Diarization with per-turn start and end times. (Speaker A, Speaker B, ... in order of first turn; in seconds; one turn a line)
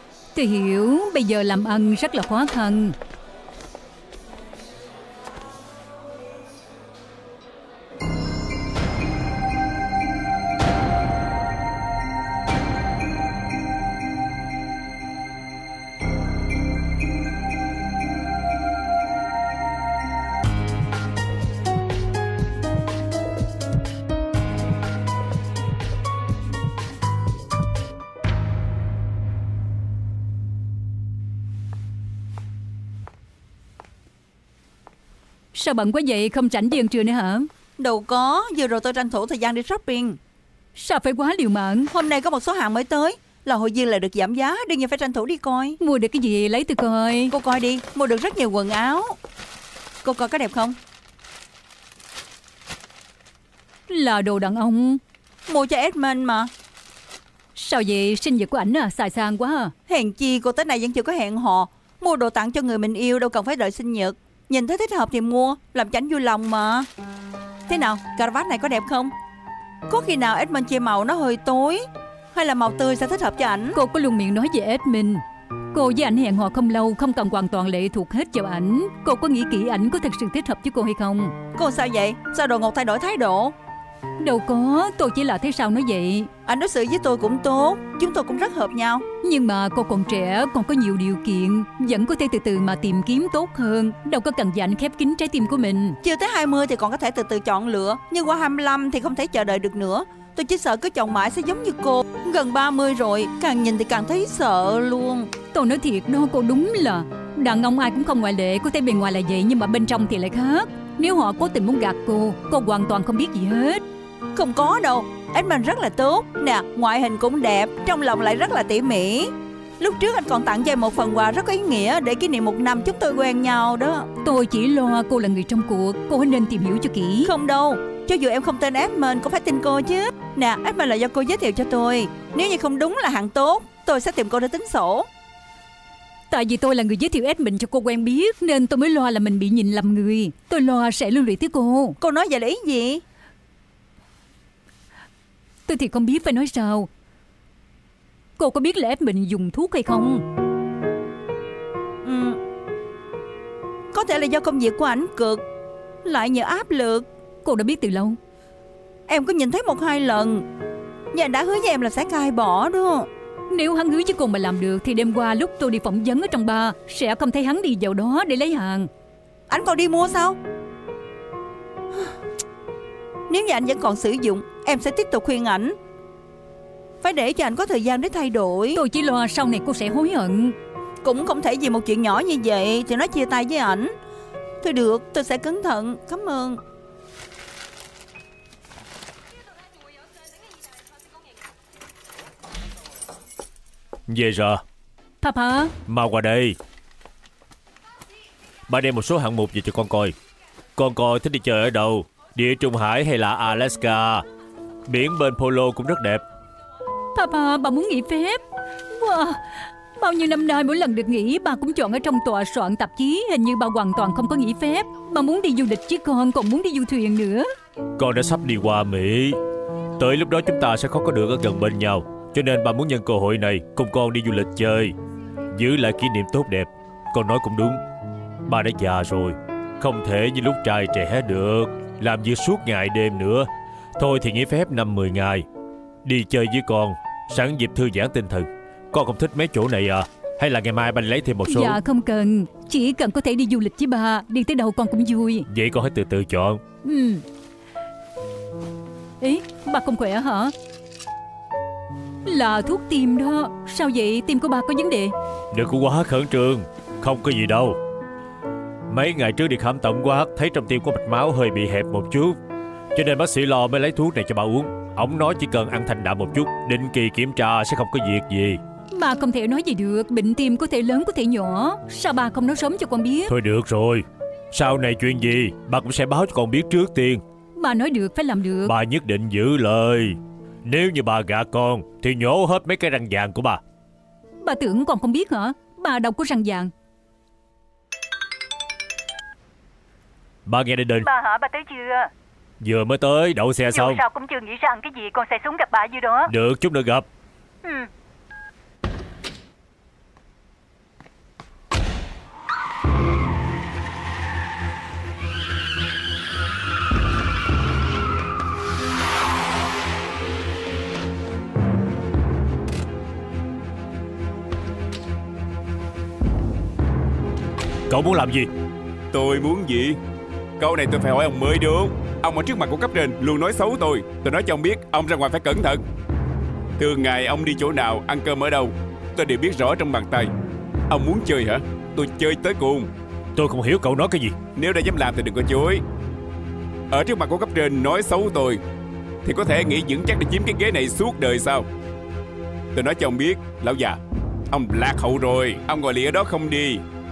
Speaker A: 0.3-3.0
Speaker A: 35.5-37.5
Speaker B: 37.8-40.2
Speaker A: 40.8-41.9
Speaker B: 41.9-45.8
Speaker A: 45.8-47.3
Speaker B: 47.3-49.2
Speaker B: 50.0-50.8
Speaker A: 53.9-55.0
Speaker B: 55.5-56.5
Speaker A: 57.5-59.7
Speaker B: 59.9-66.9
Speaker B: 67.7-69.1
Speaker B: 69.9-73.8
Speaker A: 73.7-81.3
Speaker B: 81.5-83.5
Speaker A: 84.2-86.3
Speaker B: 86.5-89.0
Speaker A: 89.2-96.0
Speaker B: 96.0-105.3
Speaker A: 105.5-113.8
Speaker B: 114.3-124.1
Speaker A: 124.2-127.3
Speaker B: 127.2-135.1
Speaker A: 136.3-142.0
Speaker B: 142.0-143.0
Speaker A: 145.7-146.9
Speaker A: 148.4-150.2
Speaker B: 152.0-152.4
Speaker B: 153.9-155.4
Speaker B: 156.0-157.1
Speaker A: 157.4-158.2
Speaker B: 159.1-160.4
Speaker B: 161.1-163.1
Speaker A: 163.5-168.9
Speaker B: 169.5-170.4
Speaker B: 173.3-175.8
Speaker B: 177.0-178.8
Speaker A: 178.7-180.6
Speaker B: 181.0-183.9
Speaker B: 184.6-186.6
Speaker C: 194.1-194.6
Speaker A: 195.2-195.7
Speaker C: 195.9-196.6
Speaker C: 198.7-200.1
Speaker C: 200.8-204.2
Speaker C: 204.9-206.2
Speaker A: 207.1-217.5
Speaker C: 218.0-219.4
Speaker C: 220.0-224.9
Speaker C: 225.5-227.8
Speaker C: 228.4-235.4
Speaker C: 236.0-241.8
Speaker A: 241.5-245.5
Speaker C: 245.5-246.6
Speaker A: 246.8-247.2
Speaker A: 249.2-250.5
Speaker A: 252.2-255.1
Speaker C: 255.5-257.8
Speaker C: 258.9-262.4
Speaker C: 262.9-268.6
Speaker A: 268.9-273.3
Speaker C: 273.3-277.2
Speaker A: 277.6-278.7
Speaker C: 278.6-283.6
Speaker A: 284.4-286.7
Speaker C: 290.4-291.1
Speaker A: 291.0-292.1
Speaker C: 292.6-294.0
Speaker A: 293.7-296.3
Speaker C: 296.3-297.1
Speaker C: 317.9-318.5
Speaker D: 319.1-320.0
Speaker D: 320.6-325.8
Speaker D: 326.8-330.3
Speaker D: 330.9-332.9
Speaker C: 333.4-334.4
Speaker D: 334.6-335.8
Speaker D: 336.9-338.6
Speaker D: 339.2-341.6
Speaker D: 342.7-344.0
Speaker D: 344.5-346.8